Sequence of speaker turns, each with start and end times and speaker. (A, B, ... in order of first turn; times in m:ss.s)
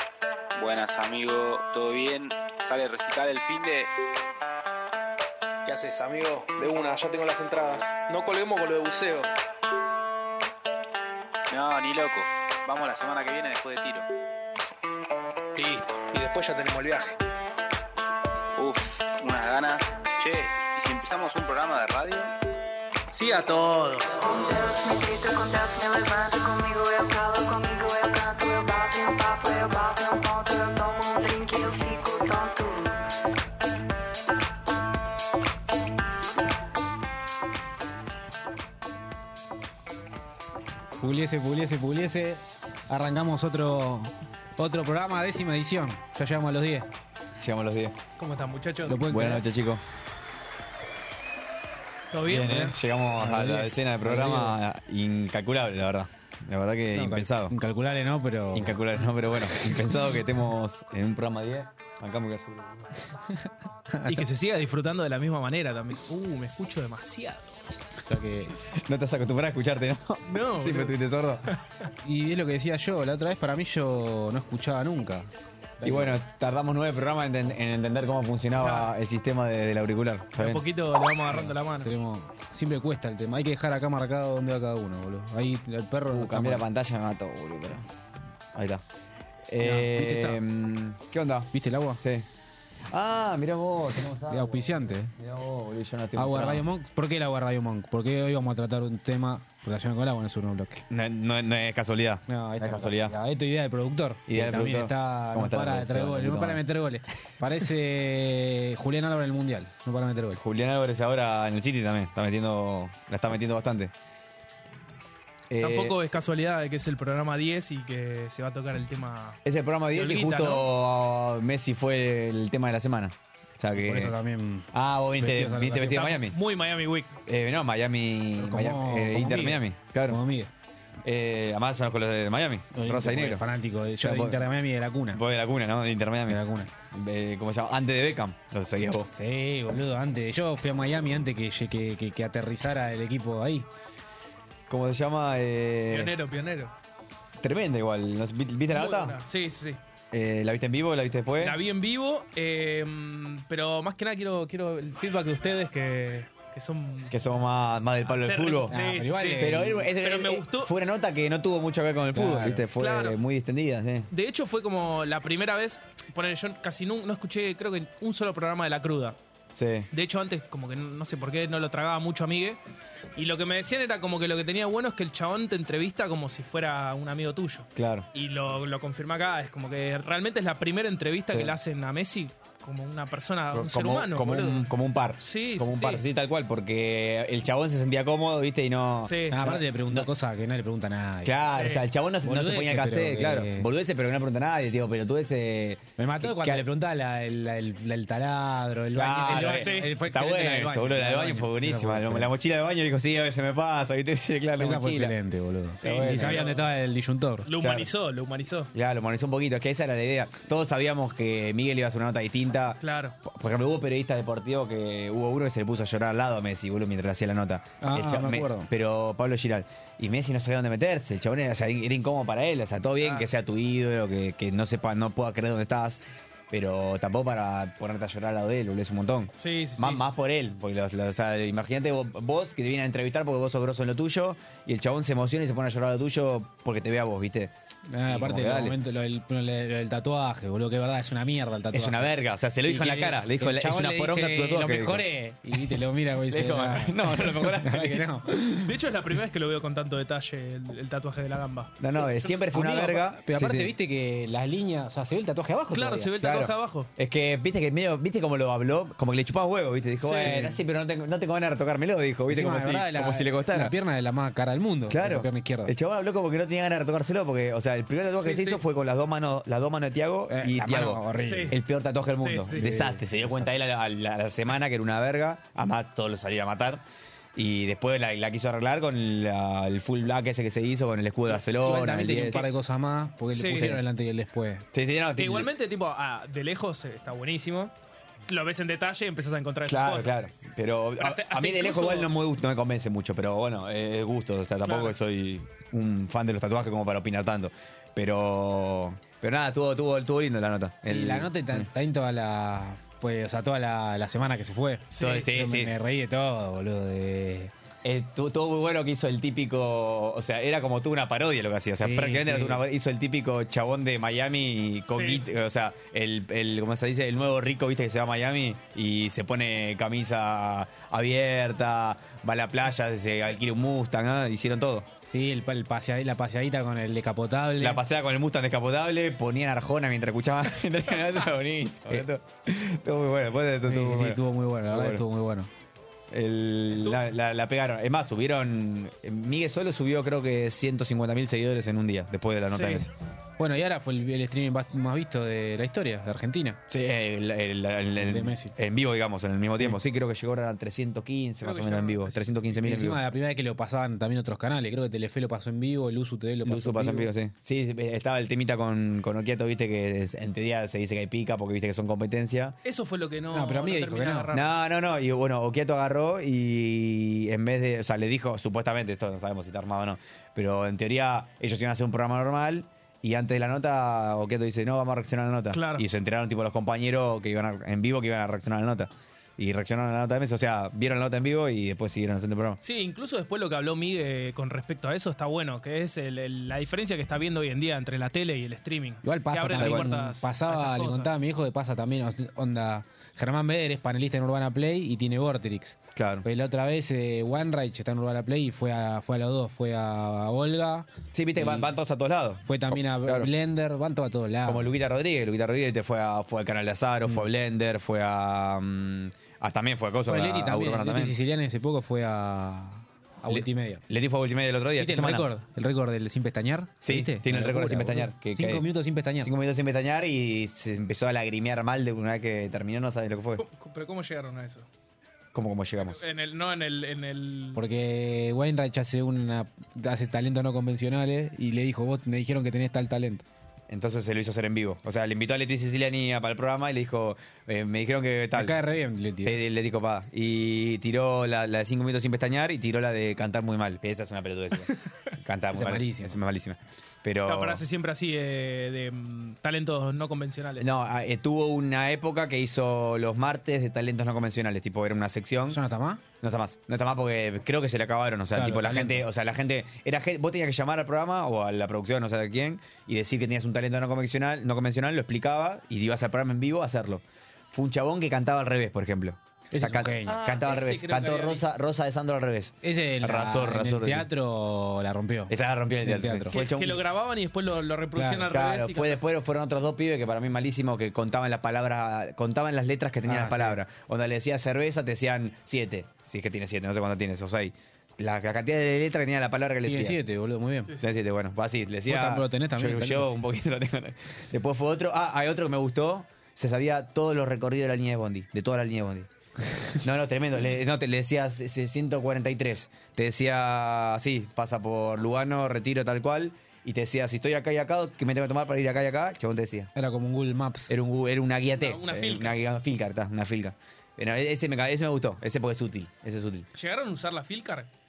0:00.6-0:03.9 A
0:05.6-0:09.2 B
0:11.5-0:14.0 A
0:15.6-0:17.2 B
0:18.6-0:22.3 A
0:23.2-0:23.9 B
0:24.1-0:33.0 C
0:41.0-0:46.9 D
0:47.4-0:47.9 E
0:48.2-0:49.1 F
0:48.8-0:49.4 D
0:49.0-0:49.8 E
0:52.1-0:52.8 F
0:52.2-0:57.5 E
0:53.2-0:54.6 D
0:56.9-0:58.8 D
0:58.5-1:03.0 E
1:03.9-1:04.2 D
1:04.1-1:07.6 F
1:08.1-1:08.5 D
1:08.7-1:11.5 E
1:10.2-1:11.0 F
1:12.0-1:15.3 D
1:15.8-1:16.2 D
1:15.8-1:20.6 E
1:18.6-1:18.9 F
1:20.4-1:21.9 F
1:21.3-1:26.6 D
1:26.1-1:27.9 E
1:28.5-1:28.8 E
1:29.5-1:32.3 E
1:29.6-1:30.4 D
1:31.5-1:32.0 D
1:32.9-1:36.6 E
1:34.3-1:35.1 D
1:36.1-1:40.8 D
1:40.9-1:43.1 E
1:42.3-1:50.4 D
1:44.3-1:46.6 E
1:50.4-1:53.9 E
1:55.5-1:56.0 E
1:55.6-1:59.4 F
1:59.4-2:04.1 E
1:59.9-2:00.7 F
2:03.8-2:06.0 D
2:04.7-2:06.4 E
2:05.9-2:07.2 F
2:07.3-2:10.2 E
2:08.4-2:10.5 D
2:11.0-2:13.4 E
2:12.7-2:15.2 D
2:14.0-2:14.5 E
2:15.1-2:19.1 E
2:16.3-2:16.7 D
2:19.1-2:23.7 D
2:24.7-2:26.1 E
2:25.9-2:26.7 F
2:27.4-2:29.2 E
2:28.7-2:29.8 F
2:30.1-2:31.6 E
2:31.4-2:37.2 F
2:37.1-2:38.8 E
2:38.1-2:40.7 F
2:38.7-2:39.8 D
2:39.4-2:44.1 E
2:42.1-2:42.6 D
2:42.8-2:43.2 F
2:44.1-2:49.2 F
2:49.5-2:49.9 E
2:49.9-2:52.6 F
2:53.1-3:04.7 F
2:57.8-2:58.1 E
3:03.5-3:10.1 E
3:05.2-3:06.0 F
3:09.0-3:09.4 F
3:09.3-3:11.4 D
3:11.2-3:16.7 E
3:11.5-3:11.8 F
3:12.2-3:13.7 D
3:16.0-3:22.3 D
3:18.9-3:25.1 E
3:19.3-3:19.9 F
3:24.6-3:27.5 D
3:25.8-3:26.5 E
3:25.8-3:26.7 F
3:27.4-3:28.7 F
3:27.6-3:27.9 E
3:28.7-3:57.5 E
3:32.8-3:33.2 F
3:37.8-3:38.7 D
3:43.0-3:43.3 F
3:49.4-3:50.0 F
3:57.9-4:02.1 D
3:58.0-3:58.8 E
4:01.7-4:05.0 E
4:02.6-4:08.6 D
4:06.3-4:08.7 E
4:08.6-4:12.3 F
4:11.8-4:13.7 E
4:12.5-4:16.1 D
4:15.7-4:16.9 F
4:16.2-4:23.7 E
4:20.0-4:20.4 F
4:20.1-4:20.6 D
4:22.3-4:25.7 D
4:24.9-4:36.8 E
4:28.2-4:28.6 F
4:30.3-4:31.5 D
4:31.2-4:31.6 F
4:32.2-4:32.6 F
4:32.5-4:33.5 D
4:37.3-4:42.4 E
4:41.4-4:44.6 D
4:43.3-4:43.8 F
4:43.5-4:43.8 E
4:44.7-4:45.5 E
4:45.2-4:47.7 F
4:48.3-4:50.2 F
4:49.6-5:01.7 E
4:51.0-4:52.1 F
4:54.6-4:55.0 F
5:00.9-5:07.5 D
5:04.9-5:05.2 F
5:05.0-5:05.7 E
5:07.8-5:24.9 E
5:11.8-5:12.6 D
5:14.9-5:15.2 F
5:25.1-5:27.8 D
5:27.6-5:35.0 E
5:33.6-5:35.5 D
5:36.1-5:42.9 E
5:36.8-5:37.0 F
5:42.5-5:42.9 F
5:43.4-5:46.6 D
5:46.7-5:53.0 E
5:48.0-5:48.6 D
5:51.4-5:52.5 F
5:52.6-5:57.1 D
5:56.4-6:02.6 E
6:02.6-6:04.5 F
6:03.3-6:04.3 D
6:04.3-6:22.6 E
6:15.5-6:15.8 F
6:22.6-6:31.1 F
6:29.0-6:41.7 D
6:29.5-6:29.9 E
6:35.9-6:36.2 E
6:41.1-6:43.3 E
6:42.4-6:44.7 D
6:44.4-6:51.1 E
6:50.1-6:53.8 D
6:53.3-6:55.3 E
6:54.8-6:59.3 D
6:56.8-6:58.6 E
6:59.2-7:03.4 E
7:03.4-7:04.7 F
7:05.3-7:06.0 E
7:05.9-7:07.6 F
7:07.5-7:13.2 D
7:13.7-7:18.6 E
7:18.3-7:19.4 D
7:19.2-7:27.6 E
7:25.5-7:26.2 D
7:27.2-7:30.7 F
7:30.6-7:35.6 E
7:35.5-7:36.0 D
7:36.2-7:54.1 E
7:38.4-7:39.0 D
7:49.5-7:50.2 D
7:49.6-7:51.4 F
7:52.6-7:56.4 D
7:55.3-7:56.8 E
7:56.3-7:59.0 F
7:58.0-7:58.3 D
7:58.3-8:10.0 E
8:03.0-8:03.6 D
8:09.6-8:10.7 D
8:10.8-8:19.1 E
8:11.8-8:13.1 D
8:19.8-8:29.7 E
8:29.7-8:30.7 D
8:30.7-8:36.5 E
8:31.6-8:32.4 F
8:36.5-8:37.7 F